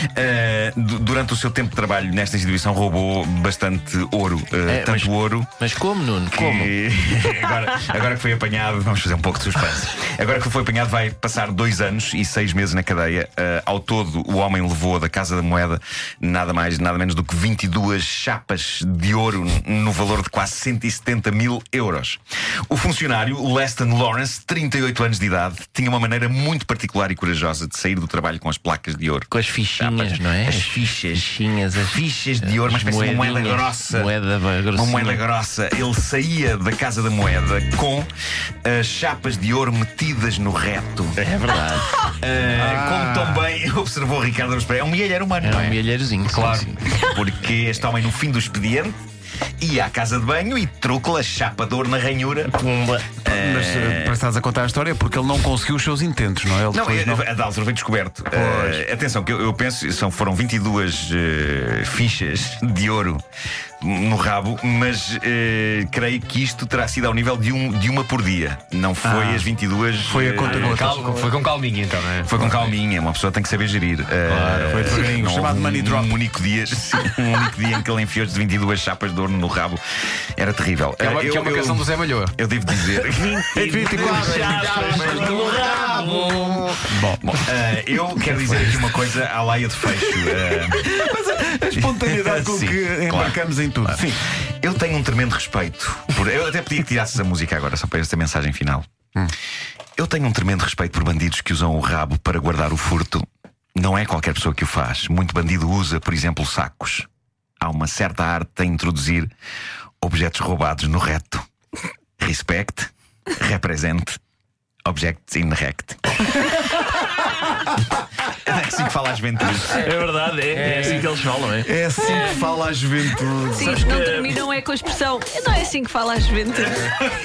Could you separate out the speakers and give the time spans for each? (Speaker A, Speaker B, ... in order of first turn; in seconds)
Speaker A: 0.1-5.5, 6.3-34.1, 34.7-38.1, 38.6-41.2, 42.2-45.8, 47.0-49.0, 49.6-52.5, 53.2-54.2, 56.7-63.2, 63.8-71.0, 72.2-79.8, 80.4-90.8, 91.8-98.9, 100.0-107.1, 107.6-109.3, 110.0-111.4, 112.2-114.2, 114.8-116.5, 118.3-119.9
Speaker B: 4.7-6.7, 29.3-35.2, 41.2-42.0, 45.4-46.9, 52.5-53.1, 83.2-86.3, 119.7-121.7, 123.9-124.4
Speaker C: 42.5-43.5, 53.2-57.3, 58.3-58.8, 69.0-69.5, 70.0-71.3, 74.7-76.1, 83.5-86.1, 86.8-87.3, 90.7-94.1, 121.6-123.9
Speaker D: 46.3-46.7, 70.4-72.8, 74.3-75.0, 81.0-82.3, 83.6-86.6, 120.7-121.0
Speaker E: 123.6-127.2